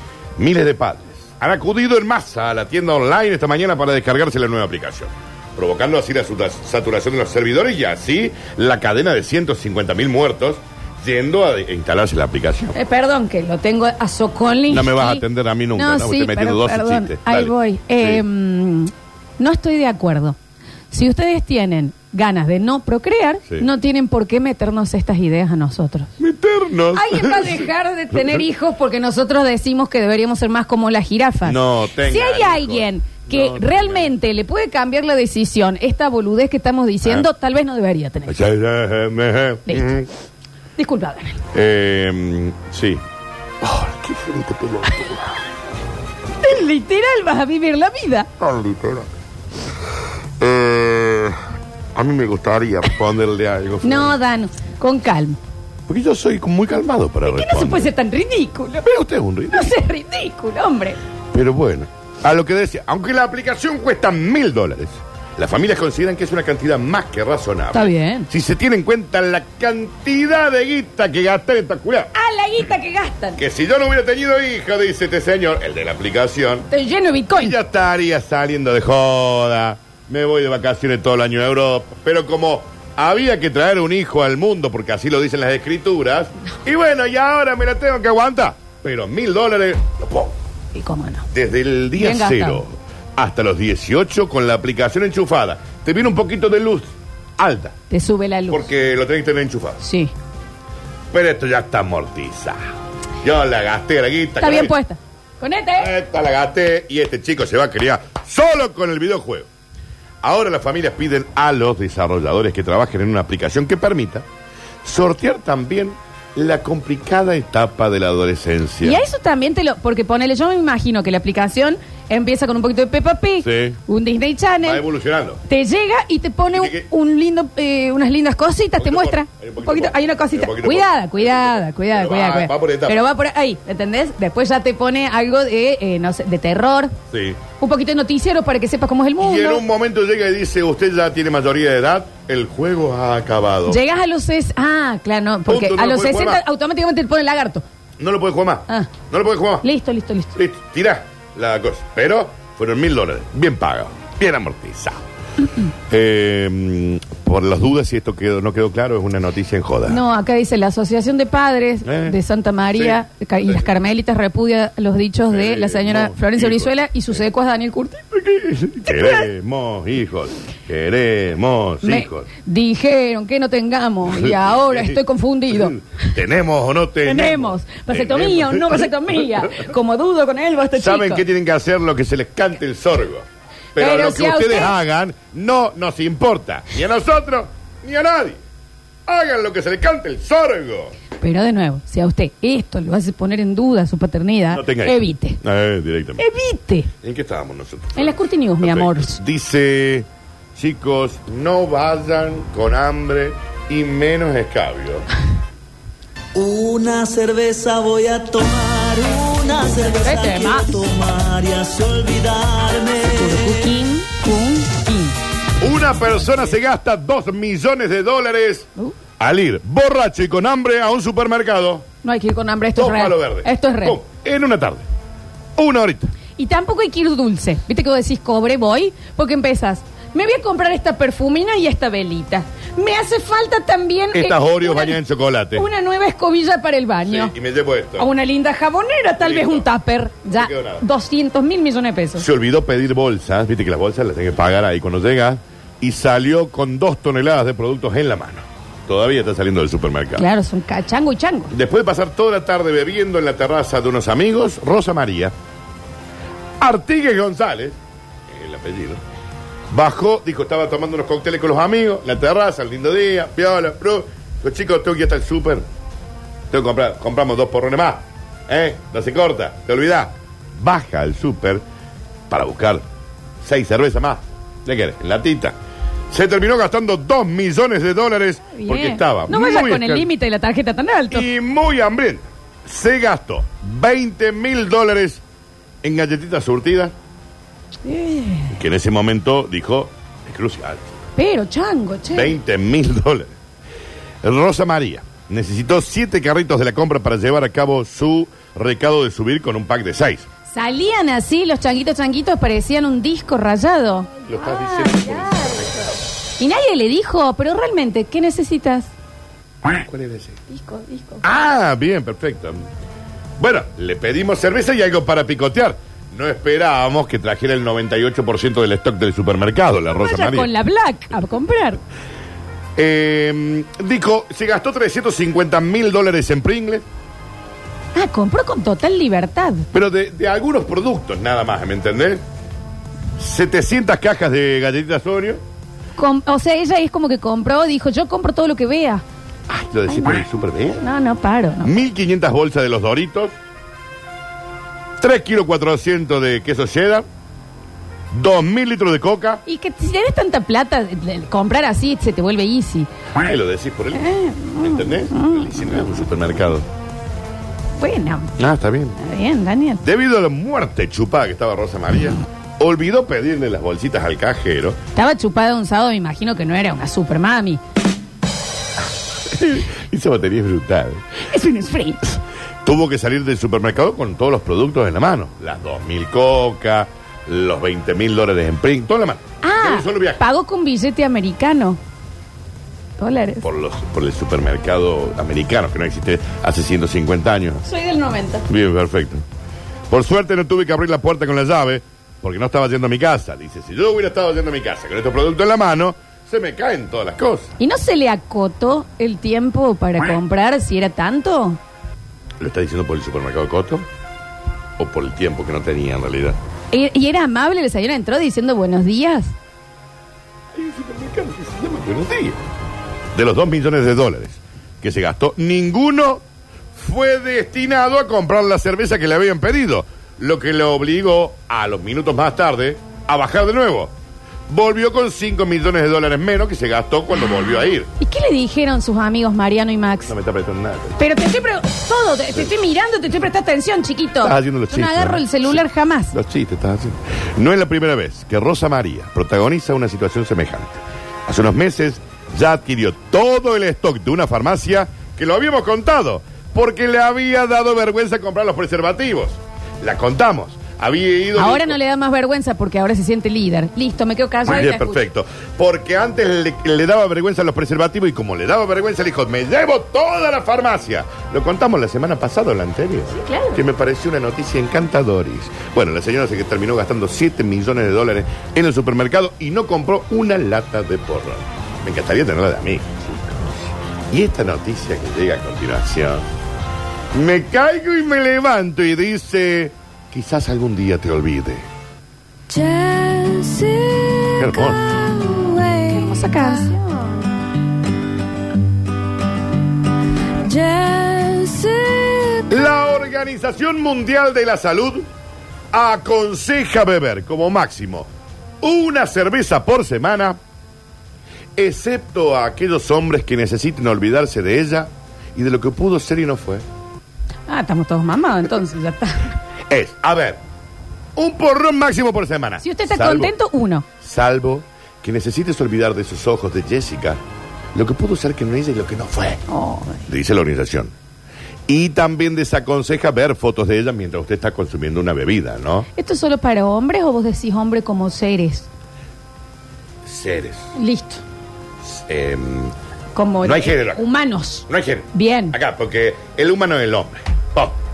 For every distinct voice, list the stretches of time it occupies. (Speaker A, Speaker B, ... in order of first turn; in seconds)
Speaker A: 0.4-12.7, 14.7-18.2, 26.2-27.7, 31.4-34.1, 38.3-40.1, 41.5-43.0, 43.6-45.2, 48.4-49.1, 50.4-51.4, 51.9-54.1, 55.9-57.9, 58.8-59.7, 61.3-72.1, 73.4-76.7, 77.3-90.3, 91.3-97.8, 98.5-99.8, 101.1-102.6, 103.2-104.7, 105.8-109.5, 110.2-114.2, 114.8-119.0, 123.4-123.8, 124.6-125.4, 126.5-126.8, 128.8-133.0, 137.1-137.4, 139.2-143.8, 145.4-146.4, 148.0-149.6, 150.3-155.0, 155.9-160.0, 161.8-162.2, 162.7-163.7, 165.3-167.2, 168.1-172.3, 174.1-179.7, 180.8-188.4, 189.1-190.9, 194.5-196.2, 197.0-205.1, 215.6-221.8, 222.8-224.8, 225.6-226.1, 234.1-235.7, 237.0-238.1, 239.2-239.7, 240.3-240.8, 242.2-250.2, 251.5-255.3, 256.6-259.0, 259.7-265.6, 266.5-271.6, 272.3-272.8, 273.4-275.6, 276.1-280.1, 281.1-285.2, 285.8-286.9, 288.5-290.9, 292.1-293.4, 294.2-300.2, 304.2-306.0, 309.6-310.4, 311.2-312.7, 313.4-320.5, 322.8-326.9, 329.7-332.2, 333.2-335.4, 339.5-340.8, 341.6-343.3, 345.0-347.1, 348.1-349.4, 353.1-356.7, 358.4-359.0, 359.8-364.8, 369.2-371.0, 372.6-380.2, 383.4-387.6, 388.5-389.2, 389.9-397.5, 402.4-403.9, 404.8-406.4, 410.5-412.4, 413.1-416.2, 416.8-423.9, 424.5-427.9, 430.0-431.0, 434.2-451.8, 454.4-476.2, 477.1-481.7, 484.4-485.1, 492.5-495.1, 495.7-498.1, 498.6-500.4, 501.6-506.6, 509.7-510.4, 511.1-513.3, 514.0-517.2, 517.7-519.4, 520.1-520.9, 521.7-525.9, 530.0-530.7, 531.8-532.7, 533.4-534.0, 534.7-537.8
Speaker B: 12.7-15.2, 15.7-20.4, 20.9-26.1, 26.9-38.4, 40.8-41.4, 44.9-45.1, 46.4-48.3, 53.8-55.4, 57.2-58.9, 59.5-61.0, 67.7-68.3, 72.1-73.4, 76.7-77.5, 90.7-91.2, 92.0-92.6, 97.9-98.6, 99.8-100.1, 104.4-105.9, 118.8-124.8, 125.5-136.9, 137.6-139.6, 143.7-147.6, 149.6-150.4, 159.8-168.0, 168.8-169.2, 171.8-176.1, 177.0-181.2, 183.8-184.8, 191.2-195.4, 196.2-196.9, 197.9-199.2, 209.8-210.8, 213.0-215.2, 222.0-224.0, 226.4-235.0, 235.5-237.3, 238.0-242.2, 250.2-251.5, 278.5-281.2, 287.8-288.5, 291.2-292.3, 300.5-305.6, 306.4-308.9, 310.5-311.2, 320.0-321.8, 327.9-329.6, 336.0-339.0, 340.8-341.7, 349.4-352.9, 353.9-355.7, 357.8-358.3, 359.0-359.8, 364.9-367.6, 371.3-372.0, 379.4-381.8, 383.0-383.4, 387.6-388.4, 397.6-401.6, 406.7-409.3, 428.0-430.1, 431.0-436.1, 451.3-455.0, 463.1-463.6, 485.8-487.1, 507.5-509.3, 512.6-513.8, 519.5-520.0, 526.0-528.7, 530.7-531.2, 533.1-535.5
Speaker C: 206.3-213.7